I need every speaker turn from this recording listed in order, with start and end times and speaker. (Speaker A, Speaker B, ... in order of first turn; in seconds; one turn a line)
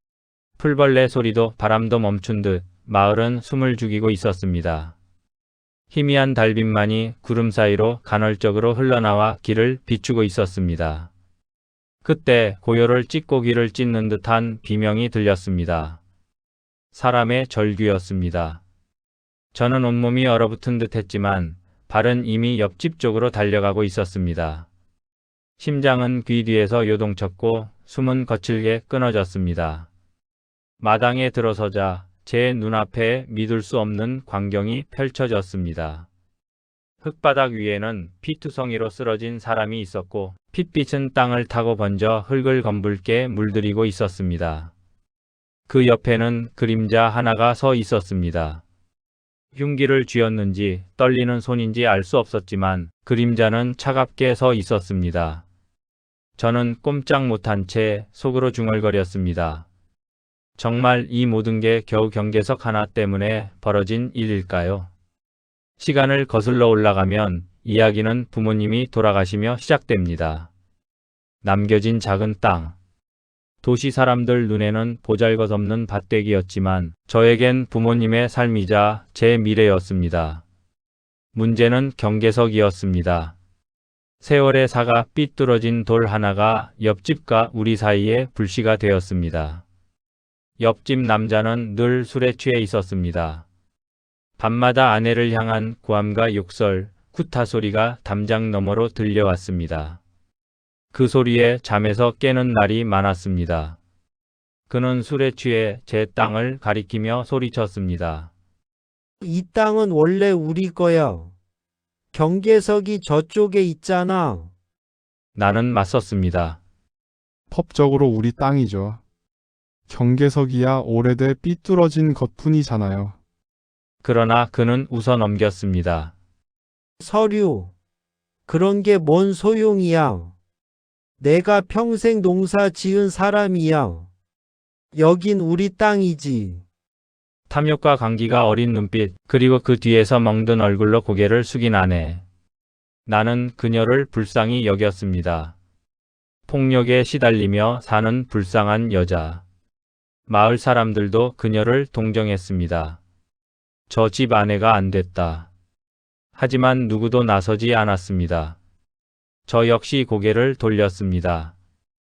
Speaker A: 0.6-5.0
Speaker A: 5.9-11.1
Speaker A: 12.0-16.0
Speaker A: 16.9-18.6
Speaker A: 19.5-24.7
Speaker A: 25.6-29.9
Speaker A: 30.8-36.1
Speaker A: 37.0-44.7
Speaker A: 45.7-48.6
Speaker A: 49.5-55.5
Speaker A: 56.4-59.7
Speaker A: 60.6-64.9
Speaker A: 65.8-70.5
Speaker A: 71.4-72.8
Speaker A: 73.6-80.4
Speaker A: 81.3-83.4
Speaker A: 84.2-89.6
Speaker A: 90.6-93.5
Speaker A: 94.4-100.0
Speaker A: 100.9-103.8
Speaker A: 104.7-108.3
Speaker B: 109.2-111.3
Speaker B: 112.1-114.5
Speaker A: 115.3-116.6
Speaker C: 117.5-119.0
Speaker C: 119.9-123.2
Speaker A: 124.0-126.1
Speaker B: 127.0-127.7
Speaker B: 128.5-130.3
Speaker B: 131.2-134.1
Speaker B: 134.9-136.6
Speaker A: 137.5-142.2
Speaker A: 143.1-145.6
Speaker A: 146.5-149.4
Speaker A: 150.3-153.0
Speaker A: 153.9-155.5
Speaker A: 156.4-158.6
Speaker A: 159.5-161.6